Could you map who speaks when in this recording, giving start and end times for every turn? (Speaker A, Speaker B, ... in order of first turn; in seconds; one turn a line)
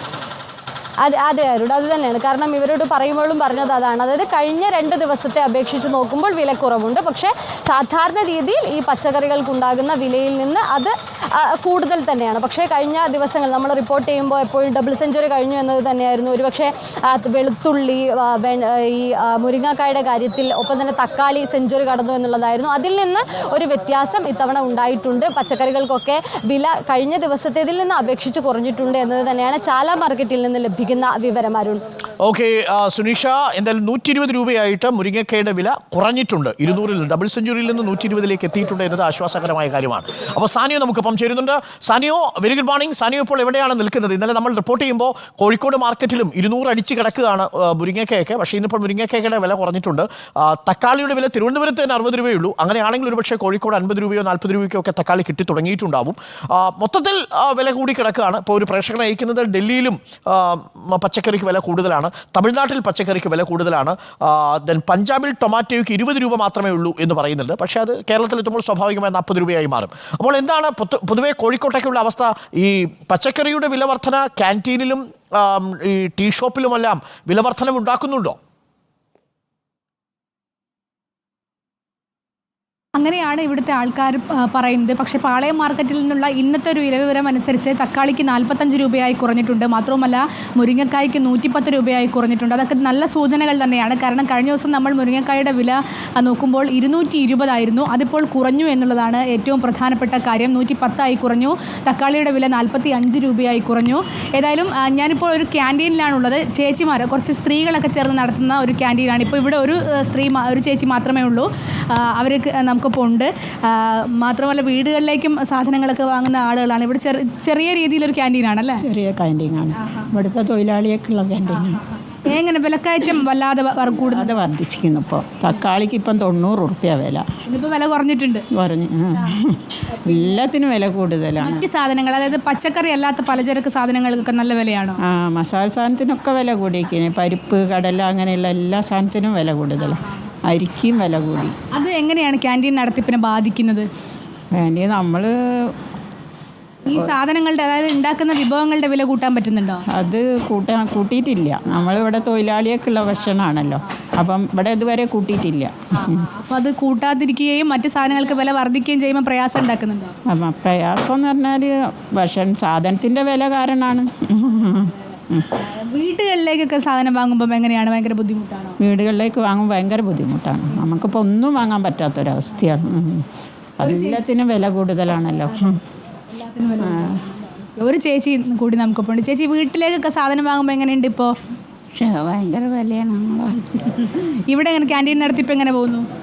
Speaker A: 1.0-31.8
Speaker B: 32.2-78.4
Speaker C: 83.0-118.8
Speaker D: 118.8-121.8
Speaker C: 119.8-120.1
Speaker C: 121.5-124.4
Speaker D: 123.9-127.2
Speaker C: 127.5-128.4
Speaker D: 128.6-131.7
Speaker C: 130.1-130.4
Speaker C: 131.4-135.0
Speaker D: 135.1-141.6
Speaker C: 141.7-143.9
Speaker D: 144.6-145.7
Speaker C: 146.9-149.8
Speaker D: 149.9-156.2
Speaker C: 153.3-153.8
Speaker C: 156.0-160.1
Speaker D: 160.3-165.4
Speaker C: 165.6-168.8
Speaker D: 168.8-173.2
Speaker D: 173.8-175.8
Speaker C: 173.8-174.2
Speaker C: 176.3-181.3
Speaker D: 176.8-177.2
Speaker D: 182.5-183.2
Speaker C: 183.7-186.1